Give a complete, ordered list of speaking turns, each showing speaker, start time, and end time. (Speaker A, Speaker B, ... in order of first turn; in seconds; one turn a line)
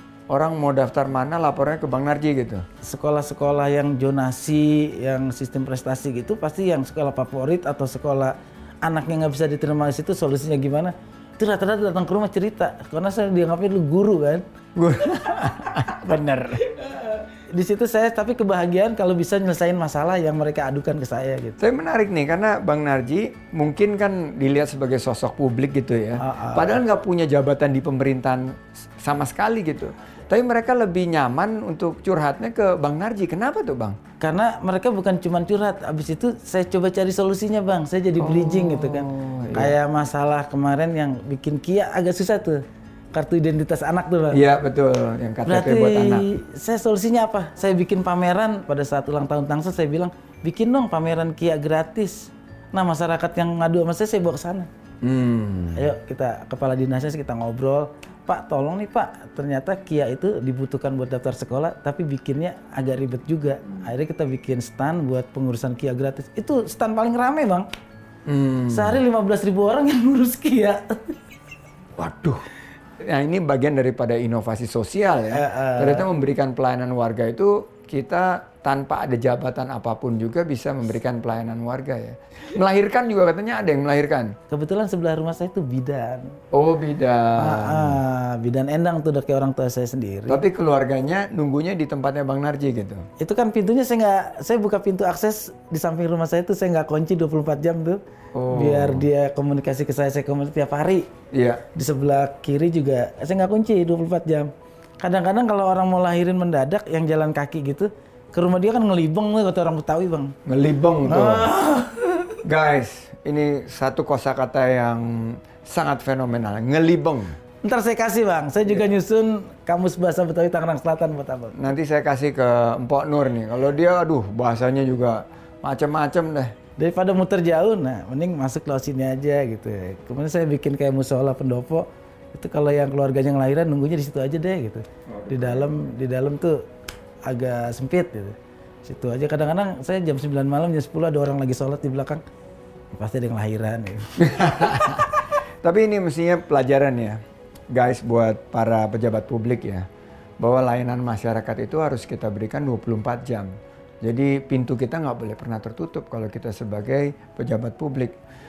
Speaker A: 0.3-2.6
Speaker B: 2.8-14.4
Speaker A: 14.8-16.6
Speaker B: 15.8-21.6
Speaker A: 21.6-34.0
Speaker B: 26.2-26.8
Speaker B: 34.2-44.4
Speaker A: 38.2-39.8
Speaker A: 44.3-46.3
Speaker B: 45.5-54.7
Speaker A: 55.0-55.9
Speaker B: 55.8-67.7
Speaker A: 68.3-69.0
Speaker B: 68.7-71.2
Speaker A: 72.0-72.5
Speaker A: 73.0-84.3
Speaker B: 75.3-76.1
Speaker B: 84.5-86.4
Speaker A: 86.5-88.0
Speaker B: 87.4-90.4
Speaker A: 90.3-93.1
Speaker B: 93.2-101.1
Speaker A: 98.3-99.1
Speaker A: 101.3-101.6
Speaker B: 101.7-110.4
Speaker A: 110.5-111.5
Speaker B: 111.0-112.4
Speaker A: 112.4-117.4
Speaker B: 117.6-121.6
Speaker A: 121.5-126.5
Speaker B: 126.8-136.6
Speaker A: 135.1-135.7
Speaker B: 137.2-142.2
Speaker B: 142.9-145.2
Speaker A: 144.2-147.2
Speaker A: 147.7-149.9
Speaker A: 150.4-153.5
Speaker A: 154.0-158.2